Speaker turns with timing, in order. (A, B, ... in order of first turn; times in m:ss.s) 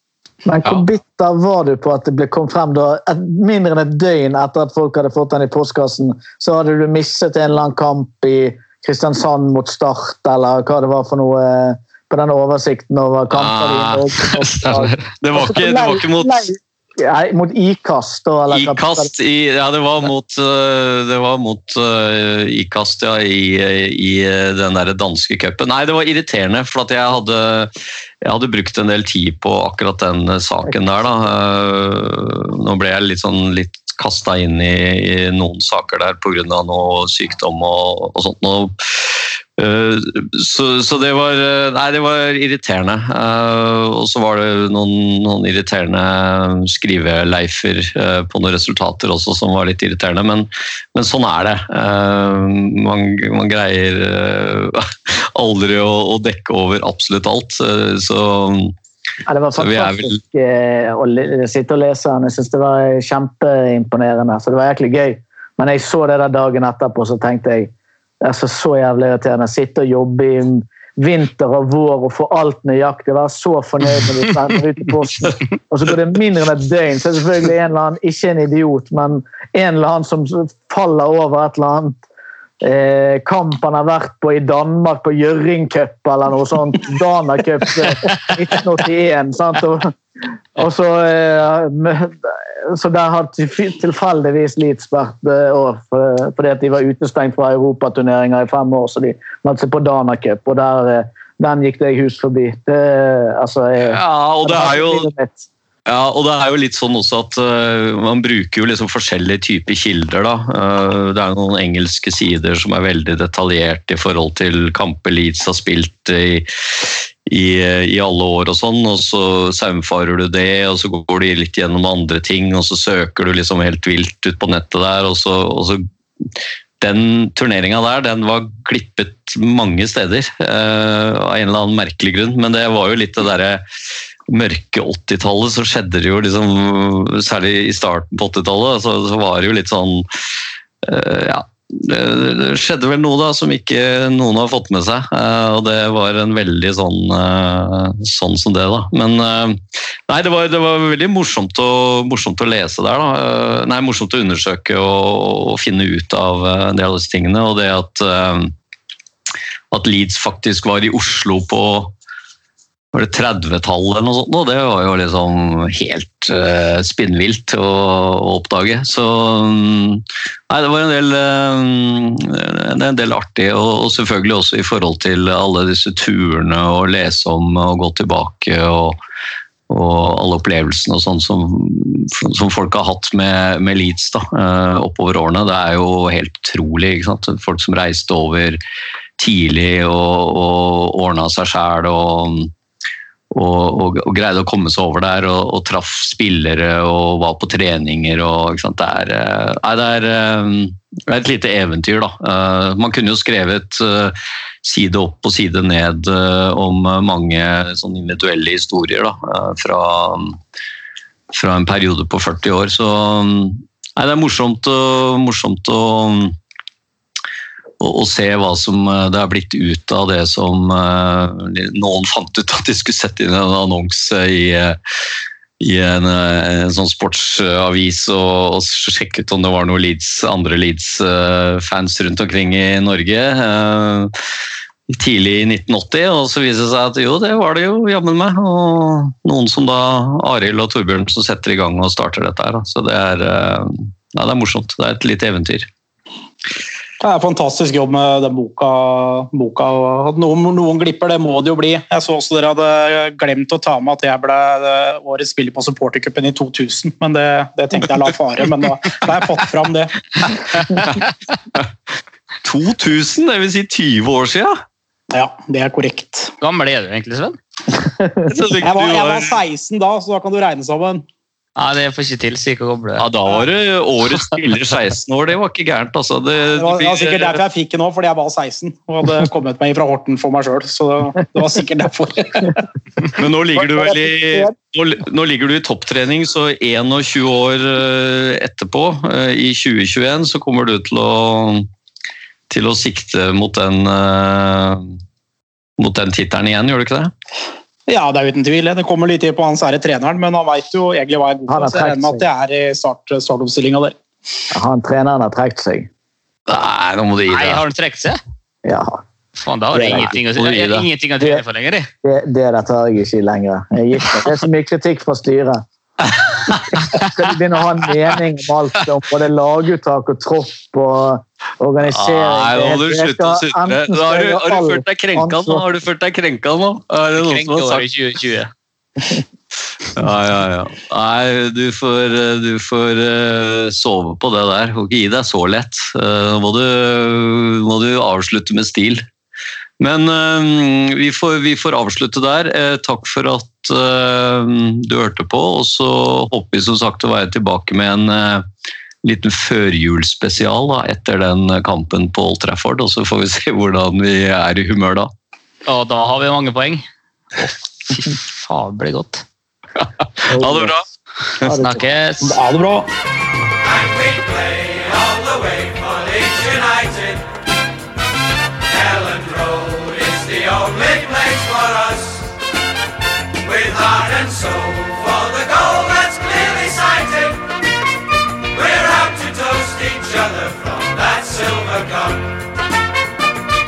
0:00.4-0:19.1 A
0:13.3-0:16.5 B
0:18.5-0:58.7 B
0:59.3-1:22.0 A
0:59.6-1:00.2 B
1:22.6-1:29.9 A
1:30.6-1:45.5 A
1:43.8-1:45.1 B
1:45.8-2:05.8 B
2:06.8-2:13.6 B
2:14.3-2:20.0 B
2:20.8-2:38.5 B
2:39.7-2:41.9 B
2:42.9-2:59.0 B
2:59.7-3:08.6 B
3:09.2-3:12.5 B
3:13.3-3:30.4 B
3:31.3-3:36.4 B
3:37.8-3:44.8 B
3:45.6-3:54.1 B
3:54.9-4:05.7 B
4:07.0-4:20.0 C
4:22.4-4:24.6 B
4:25.1-4:26.3 C
4:26.4-4:27.4 D
4:28.0-4:28.3 A
4:28.3-4:29.4 B
4:28.6-4:31.0 C
4:31.6-4:33.0 D
4:33.0-4:37.4 B
4:36.6-4:42.6 C
4:43.1-4:51.7 B
4:52.5-4:54.9 B
4:55.8-4:57.1 B
4:57.9-5:04.0 C
5:01.5-5:02.2 A
5:04.5-5:05.9 A
5:06.5-5:07.6 B
5:07.3-5:08.2 D
5:08.6-5:09.0 A
5:09.4-5:11.9 D
5:09.7-5:10.1 A
5:09.8-5:10.9 B
5:12.0-5:15.6 A
5:16.7-5:25.6 A
5:21.8-5:27.9 B
5:27.1-5:28.5 D
5:29.9-5:39.0 B
5:39.8-5:48.4 B
5:49.0-5:55.1 B
5:55.6-5:56.8 D
5:57.4-5:59.2 D
5:59.8-6:00.8 B
6:00.3-6:00.7 A
6:01.4-6:01.7 A
6:01.5-6:02.4 D
6:02.2-6:02.9 C
6:09.4-6:10.9 B
6:14.2-6:14.6 B
6:15.6-6:17.0 B
6:19.3-6:20.2 B